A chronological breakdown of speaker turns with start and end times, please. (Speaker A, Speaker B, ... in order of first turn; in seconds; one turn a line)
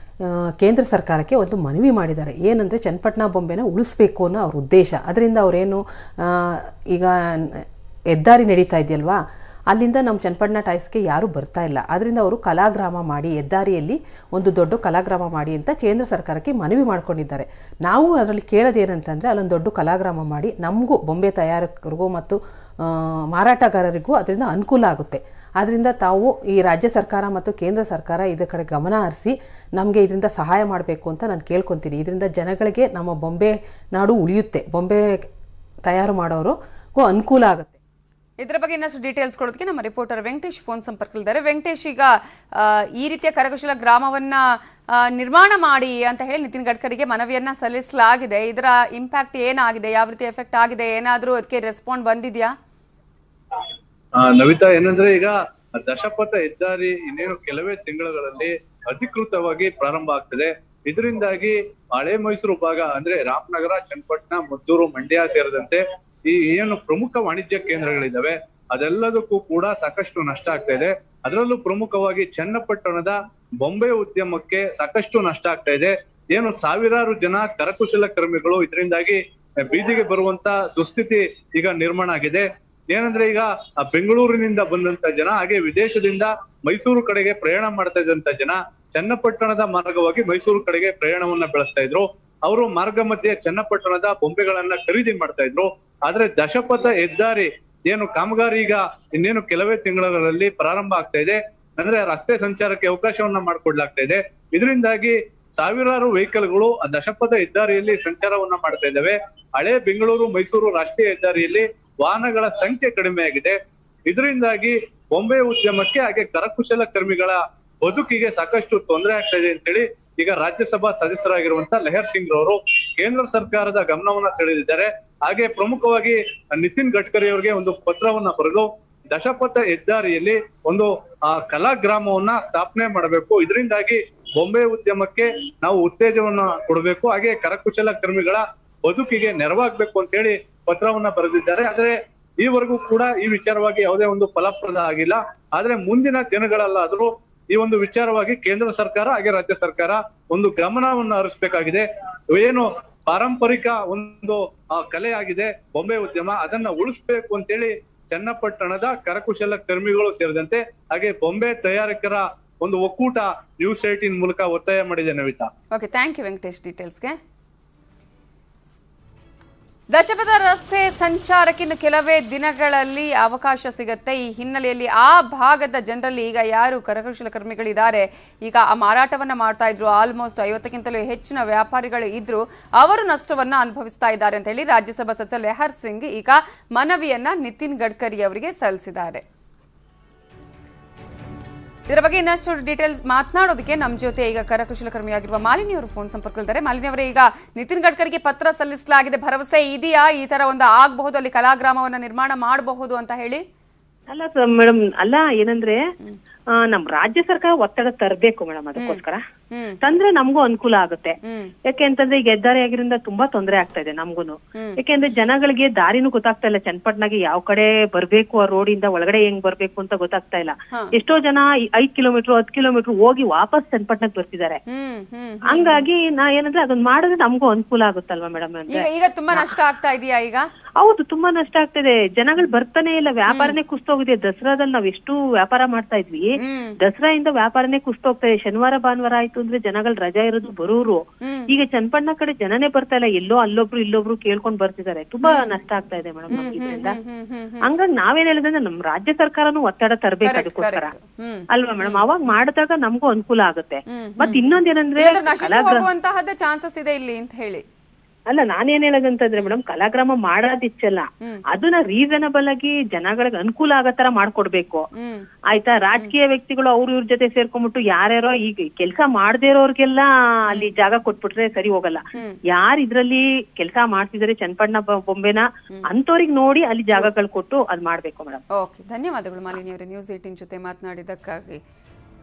Speaker A: 0.2-9.2
Speaker A: 9.7-35.3
Speaker A: 35.9-37.8
Speaker B: 38.4-44.4
Speaker B: 45.0-52.5
Speaker C: 54.2-165.5
Speaker B: 165.7-167.2
Speaker B: 169.9-189.2
Speaker B: 191.9-203.4
Speaker D: 204.1-205.8
Speaker D: 206.7-209.2
Speaker B: 209.5-209.8
Speaker D: 209.8-224.6
Speaker B: 211.2-211.5
Speaker B: 224.7-225.8
Speaker D: 225.5-229.5
Speaker B: 228.7-230.5
Speaker D: 230.8-247.0
Speaker B: 233.3-233.6
Speaker B: 236.4-236.8
Speaker B: 241.2-241.5
Speaker B: 245.2-245.5
Speaker B: 246.3-247.7
Speaker D: 247.6-250.9
Speaker B: 250.2-252.1
Speaker D: 251.5-255.9
Speaker B: 253.9-257.6
Speaker D: 258.3-264.9
Speaker B: 264.9-265.3
Speaker D: 265.5-278.4
Speaker B: 278.6-281.6